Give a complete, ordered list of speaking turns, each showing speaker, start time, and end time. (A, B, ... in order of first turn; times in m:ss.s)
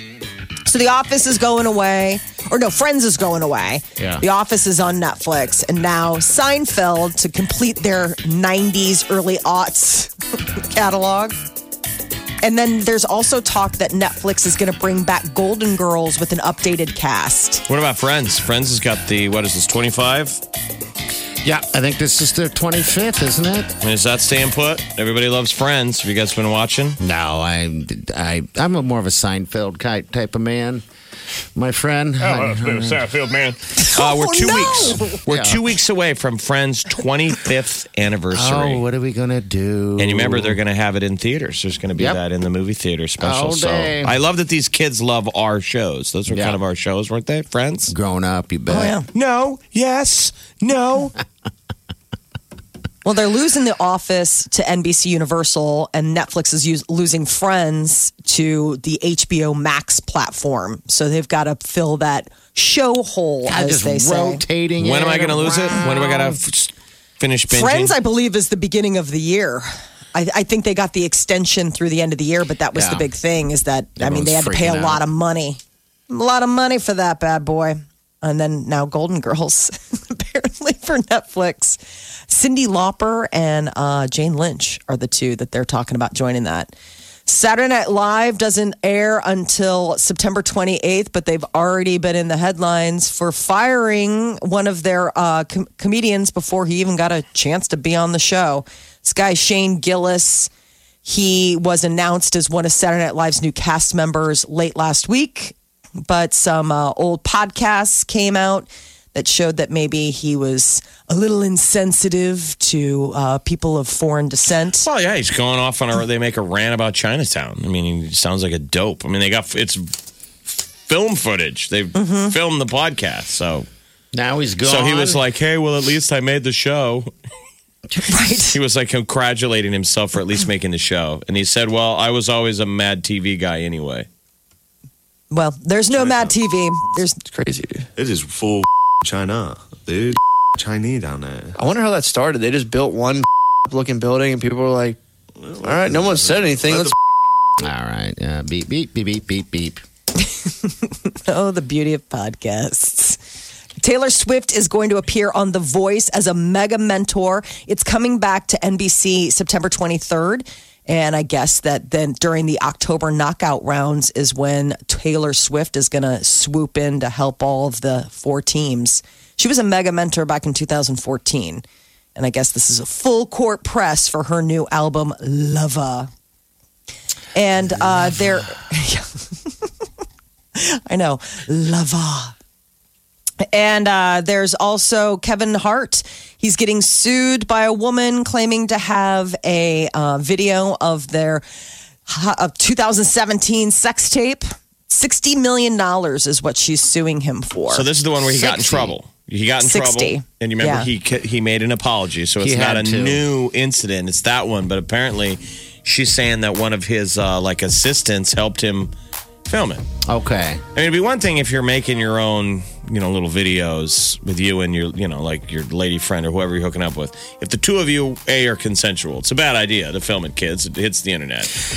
0:00.6-0:11.4 A
0:04.0-0:04.2 B
0:12.4-0:17.6 A
0:17.7-0:20.4 C
0:21.4-0:23.7 B
0:23.8-0:27.0 C
0:27.0-0:30.8 B
0:31.5-0:33.1 B
0:32.2-0:38.8 C
0:33.8-0:35.2 A
0:35.3-0:35.6 B
0:38.3-0:40.6 B
0:40.0-0:47.9 C
0:43.2-0:44.1 B
0:46.3-0:46.6 B
0:47.9-0:49.0 B
0:48.7-0:49.1 A
0:49.1-0:51.2 C
0:53.0-1:04.4 A
1:03.4-1:05.8 B
1:04.8-1:07.9 C
1:05.4-1:06.1 A
1:07.5-1:26.7 A
1:12.7-1:13.1 B
1:14.0-1:15.0 B
1:27.2-1:40.5 A
1:41.0-1:54.9 A
1:54.8-1:59.9 C
2:00.5-2:03.7 C
2:01.9-2:02.4 A
2:04.1-2:05.2 B
2:04.6-2:07.1 C
2:08.1-2:08.6 A
2:08.4-2:14.1 C
2:15.3-2:17.2 A
2:16.0-2:16.3 D
2:17.2-2:17.9 E
2:18.0-2:21.6 D
2:21.6-2:25.0 E
2:25.6-2:26.9 D
2:25.6-2:26.9 E
2:27.6-2:29.8 B
2:30.4-2:33.2 A
2:33.8-2:51.6 A
2:52.2-2:56.1 A
2:57.3-2:59.5 A
3:00.6-3:02.3 A
3:03.5-3:11.4 A
3:12.1-3:17.9 A
3:17.7-3:28.9 C
3:18.2-3:18.9 B
3:19.6-3:20.9 A
3:22.4-3:23.2 B
3:29.4-3:29.8 C
3:30.1-3:30.6 B
3:30.7-3:41.6 C